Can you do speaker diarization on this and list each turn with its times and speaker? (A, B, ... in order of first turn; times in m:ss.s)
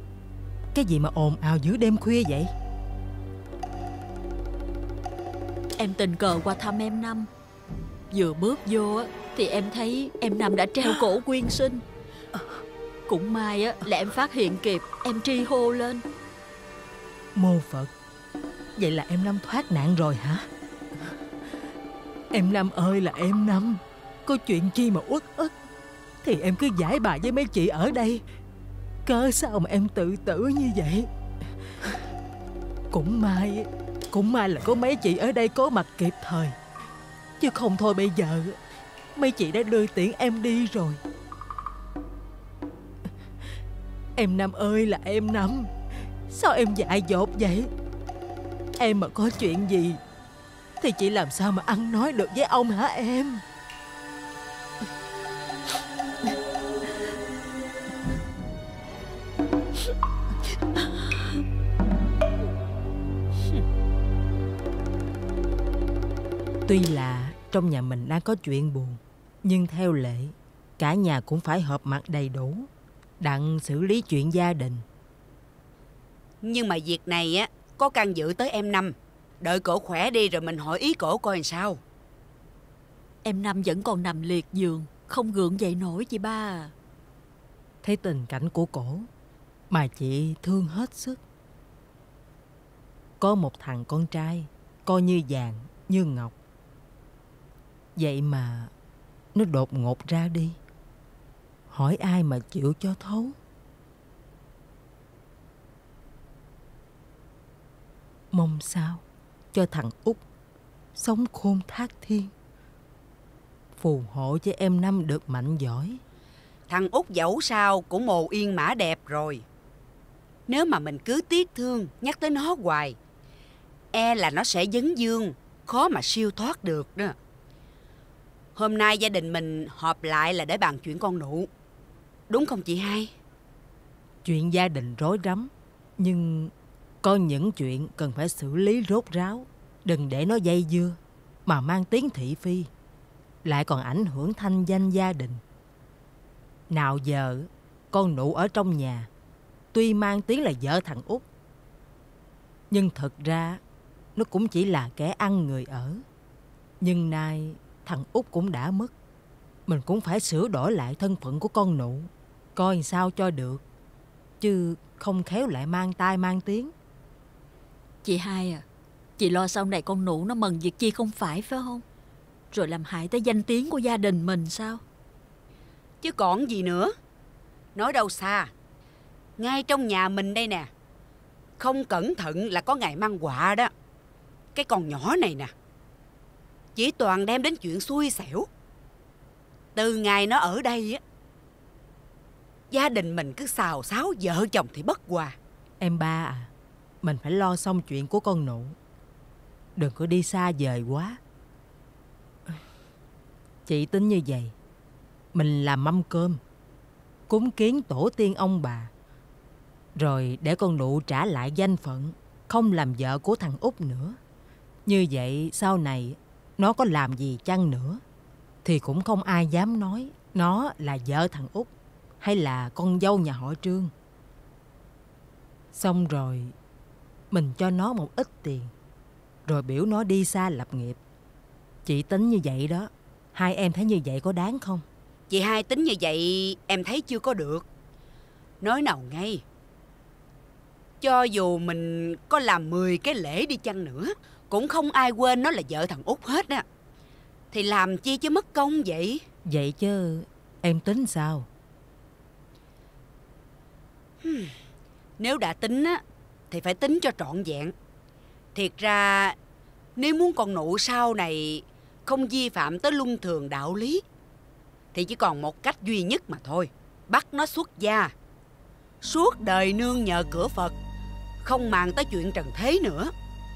0:00.7-0:02.5 A
0:05.8-0:07.3 B
0:08.1-0:11.8 B
0:13.1-0:16.0 B
0:17.3-0:17.9 A
0:18.8-0:20.5 A
0:22.3-0:25.5 A
0:26.2-0:28.2 A
0:29.0-0:31.1 A
0:32.9-0:36.6 A
0:37.4-0:38.6 A
0:39.1-0:41.0 A
0:44.2-0:47.7 A
0:48.8-0:50.0 A
0:50.8-0:53.4 A
1:06.7-1:14.8 A
1:16.4-1:21.8 C
1:23.2-1:26.7 B
1:27.8-1:29.1 A
1:29.7-1:31.2 A
1:33.2-1:36.3 A
1:38.0-1:38.7 A
1:39.3-1:40.6 A
1:41.7-1:43.4 A
1:48.3-1:50.2 A
1:51.0-1:52.3 A
1:53.8-1:56.0 A
1:56.7-1:59.4 C
2:00.5-2:03.0 C
2:03.9-2:07.1 C
2:08.6-2:11.5 C
2:12.3-2:13.1 C
2:14.2-2:22.7 A
2:23.4-2:25.4 A
2:26.7-2:29.1 A
2:29.7-2:31.2 A
2:32.7-2:33.6 A
2:34.2-2:36.0 A
2:36.8-2:38.9 A
2:39.7-2:43.6 A
2:44.4-2:46.7 A
2:48.0-2:48.6 B
2:49.2-2:51.8 B
2:52.5-2:54.8 B
2:56.0-2:56.9 C
2:57.8-2:58.5 C
2:59.4-3:00.7 C
3:01.6-3:03.7 C
3:04.5-3:05.5 C
3:06.8-3:08.5 C
3:09.8-3:11.0 C
3:12.7-3:15.4 C
3:15.8-3:16.5 A
3:17.0-3:18.8 A
3:19.8-3:21.2 A
3:23.6-3:24.5 A
3:25.3-3:26.4 A
3:27.3-3:28.9 A
3:30.0-3:34.2 A
3:34.8-3:38.0 A
3:38.6-3:41.7 A
3:42.2-3:43.9 A
3:45.7-3:46.5 A
3:47.3-3:48.7 A
3:49.4-3:51.0 A
3:51.8-3:54.8 A
3:55.3-3:57.6 C
3:58.6-3:59.4 C
4:01.0-4:06.6 C
4:07.5-4:09.2 C
4:09.4-4:11.5 A
4:14.2-4:14.5 C
4:15.2-4:17.7 C
4:18.5-4:19.4 C
4:20.0-4:24.0 C
4:24.9-4:28.1 C
4:29.0-4:30.7 C
4:31.4-4:33.1 C